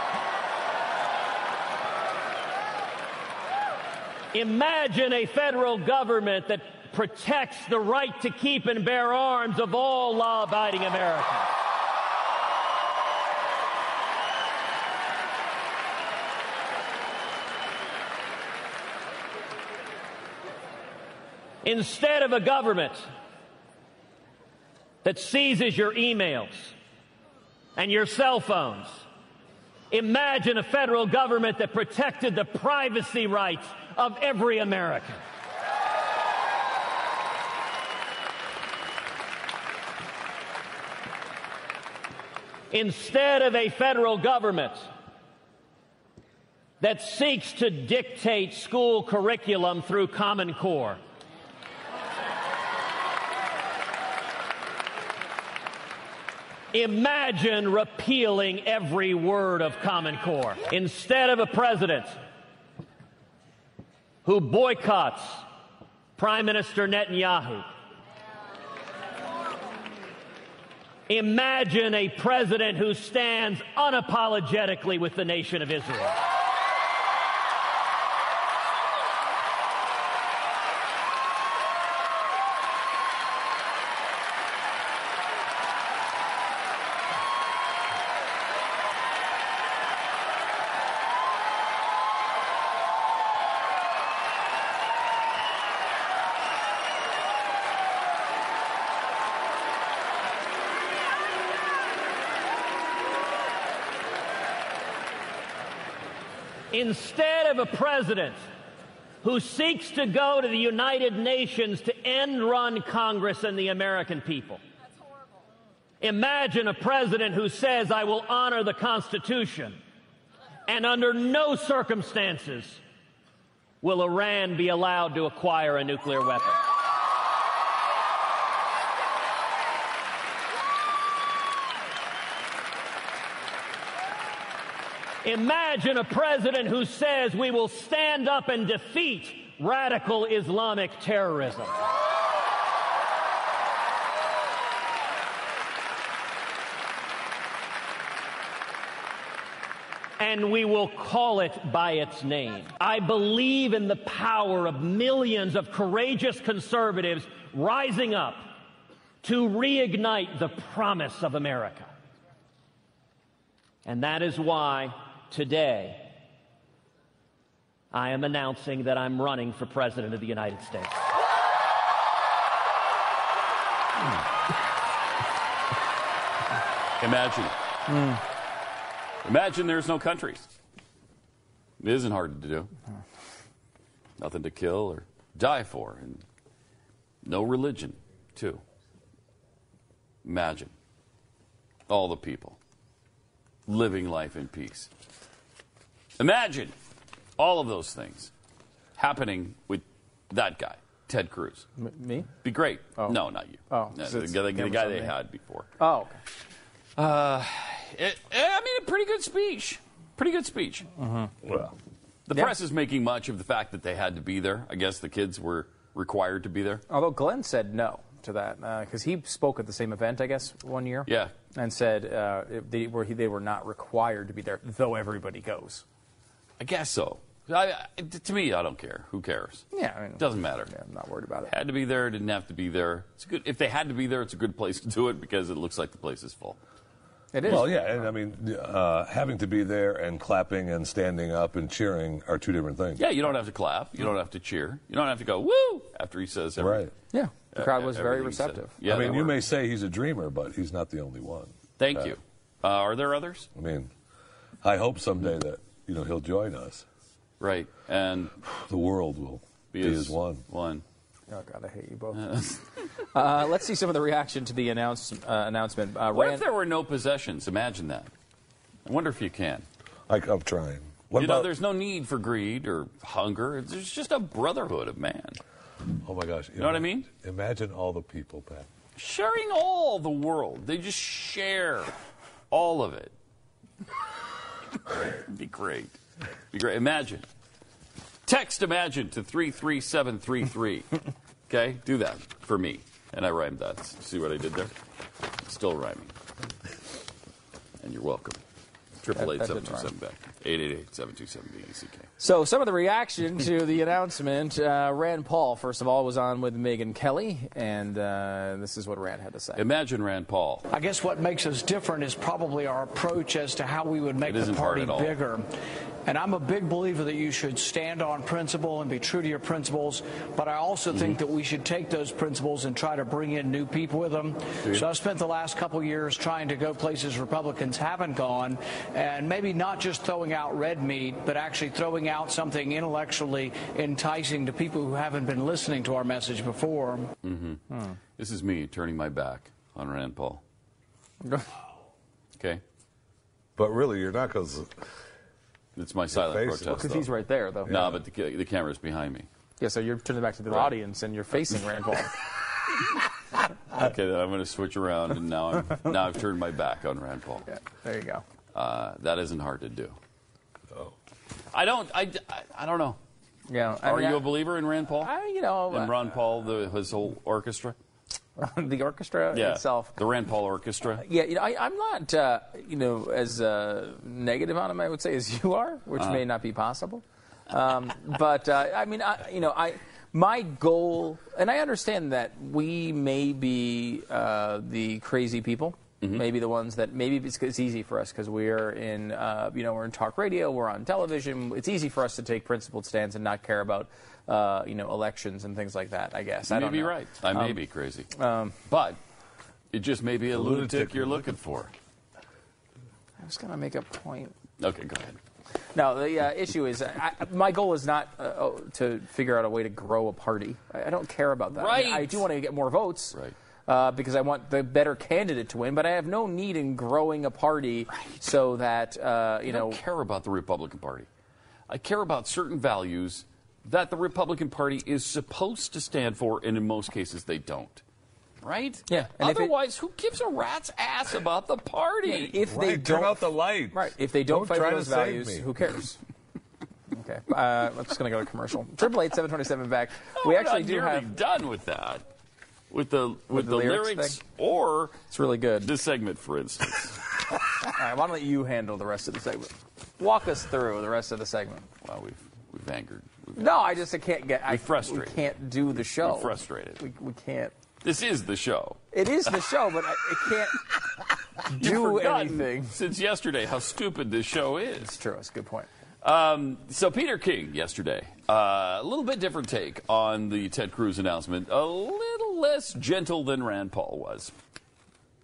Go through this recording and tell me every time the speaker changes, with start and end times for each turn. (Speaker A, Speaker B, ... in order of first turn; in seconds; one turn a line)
Speaker A: 4.3-11.5
Speaker A: 21.6-23.1
Speaker A: 25.0-26.7
Speaker A: 27.8-29.0
Speaker A: 29.9-35.2
Speaker A: 42.7-44.9
Speaker A: 46.8-51.0
Speaker A: 56.7-62.2
Speaker A: 64.2-65.4
Speaker A: 66.2-67.7
Speaker A: 71.1-76.2
Speaker A: 106.7-108.4
Speaker A: 109.2-114.6
Speaker A: 116.0-119.8
Speaker A: 120.7-122.8
Speaker A: 123.8-126.6
Speaker A: 135.2-141.7
Speaker A: 150.2-158.5
Speaker A: 159.2-161.9
Speaker A: 163.8-166.1
Speaker A: 167.9-171.0
Speaker B: 177.0-177.5
Speaker C: 177.9-178.2
Speaker B: 179.2-180.5
Speaker B: 181.8-182.7
Speaker B: 184.2-186.2
Speaker B: 187.2-188.6
Speaker B: 190.2-190.7
Speaker B: 191.9-192.6
Speaker B: 193.7-194.9
Speaker B: 196.2-196.8
Speaker B: 197.4-198.3
Speaker B: 199.0-201.7
Speaker C: 201.8-202.3
Speaker B: 202.4-205.7
Speaker C: 203.7-205.1
Speaker C: 205.8-206.2
Speaker B: 207.0-210.9
Speaker C: 211.0-211.3
Speaker D: 211.4-211.7
Speaker B: 212.3-216.8
Speaker C: 216.9-225.8
Speaker B: 221.1-221.3
Speaker B: 226.6-230.7
Speaker C: 229.7-231.5
Speaker B: 231.4-236.6
Speaker C: 237.3-238.1
Speaker D: 237.4-243.0
Speaker B: 243.0-246.9
Speaker D: 246.6-246.9
Speaker C: 247.1-248.8
Speaker B: 247.5-249.4
Speaker D: 248.8-252.1
Speaker B: 251.8-253.5
Speaker D: 253.5-253.9
Speaker D: 254.6-256.8
Speaker B: 257.4-258.3
Speaker D: 258.4-260.4
Speaker B: 259.7-260.8
Speaker C: 261.3-262.4
Speaker B: 262.1-262.6
Speaker C: 263.1-266.5
Speaker B: 266.1-268.1
Speaker B: 268.8-269.6
Speaker D: 270.1-271.5
Speaker B: 271.1-275.4
Speaker D: 276.0-278.7
Speaker B: 276.6-277.1
Speaker B: 278.9-281.9
Speaker B: 282.5-283.1
Speaker B: 285.2-286.0
Speaker B: 286.5-287.2
Speaker B: 288.2-290.9
Speaker B: 291.5-294.7
Speaker B: 295.4-296.1
Speaker B: 297.8-298.4
Speaker B: 299.0-302.1
Speaker C: 299.1-299.9
Speaker C: 302.2-309.6
Speaker B: 309.6-310.6
Speaker E: 310.7-315.4
Speaker B: 314.2-315.2
Speaker E: 316.0-337.1
Speaker B: 320.9-321.2
Speaker B: 337.2-337.6
Speaker B: 338.2-340.4
Speaker D: 343.6-344.7
Speaker B: 345.8-347.1
Speaker D: 346.1-347.0
Speaker C: 346.7-347.9
Speaker B: 347.6-349.3
Speaker C: 349.6-352.1
Speaker B: 353.7-357.5
Speaker C: 357.5-358.2
Speaker B: 358.5-360.0
Speaker B: 361.5-363.0
Speaker C: 363.5-364.3
Speaker B: 363.8-365.1
Speaker C: 365.0-366.0
Speaker B: 365.7-367.8
Speaker C: 368.4-370.0
Speaker B: 369.3-371.0
Speaker C: 371.0-398.6
Speaker B: 396.5-398.1
Speaker B: 398.6-399.0
Speaker B: 399.7-401.7
Speaker D: 400.3-401.2
Speaker C: 403.2-404.4
Speaker B: 404.6-405.2
Speaker C: 405.7-419.8
Speaker B: 411.5-412.3
Speaker B: 419.5-421.1
Speaker B: 421.7-427.8
Speaker B: 428.4-432.4
Speaker C: 428.9-429.5
Speaker C: 432.0-436.0
Speaker D: 432.4-435.5
Speaker C: 436.9-441.1
Speaker B: 440.1-442.0
Speaker B: 442.7-445.0
Speaker C: 443.3-444.2
Speaker C: 445.1-445.7
Speaker B: 445.6-447.0
Speaker C: 447.6-451.7
Speaker B: 451.8-453.7
Speaker C: 453.4-457.5
Speaker B: 454.5-455.2
Speaker B: 455.8-456.8
Speaker B: 457.8-458.8
Speaker C: 458.9-460.6
Speaker C: 461.5-462.8
Speaker B: 461.5-464.9
Speaker C: 464.8-465.7
Speaker B: 466.0-474.3